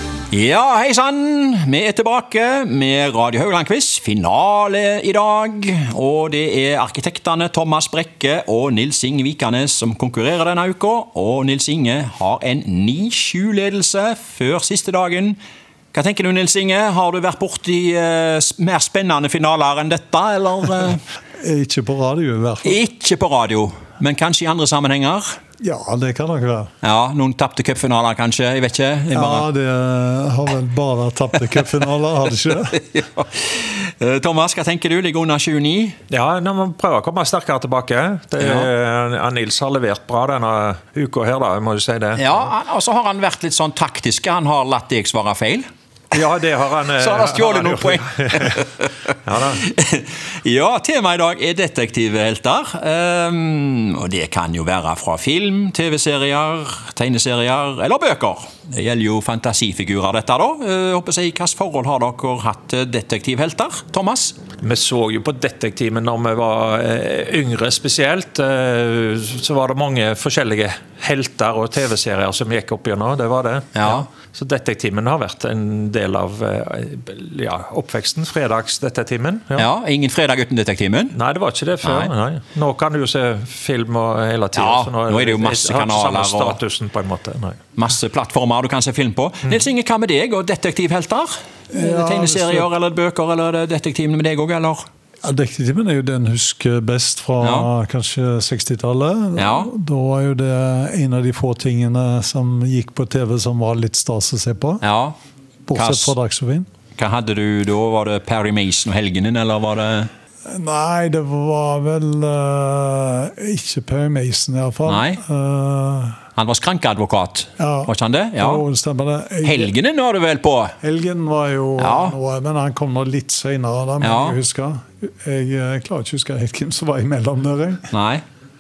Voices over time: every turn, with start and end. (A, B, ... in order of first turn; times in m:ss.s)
0:00.3-0:15.4 A
0:15.9-0:21.0 A
0:21.4-0:22.8 B
0:22.6-0:25.3 A
0:25.6-0:26.7 B
0:26.8-0:29.5 A
0:29.1-0:32.8 B
0:32.5-0:36.0 A
0:36.1-0:42.2 C
0:38.4-0:38.7 A
0:42.2-0:45.6 A
0:46.1-0:48.6 C
0:47.0-0:48.9 A
0:49.2-0:49.6 C
0:49.6-1:04.4 A
1:04.6-1:19.7 C
1:13.8-1:14.1 A
1:19.6-1:21.2 A
1:21.1-1:27.6 C
1:21.8-1:22.1 A
1:24.6-1:26.6 A
1:27.8-1:34.8 A
1:31.7-1:32.7 B
1:35.2-1:44.8 B
1:37.4-1:37.7 A
1:39.4-1:39.7 A
1:44.8-1:45.2 A
1:45.7-1:46.7 B
1:45.7-1:46.2 A
1:47.0-1:50.1 A
1:50.5-1:56.2 B
1:54.9-1:55.2 A
1:56.4-1:58.6 A
1:57.6-1:59.7 B
1:59.4-2:00.8 A
2:00.8-2:07.8 B
2:01.8-2:02.2 A
2:04.0-2:04.4 A
2:07.9-2:08.2 A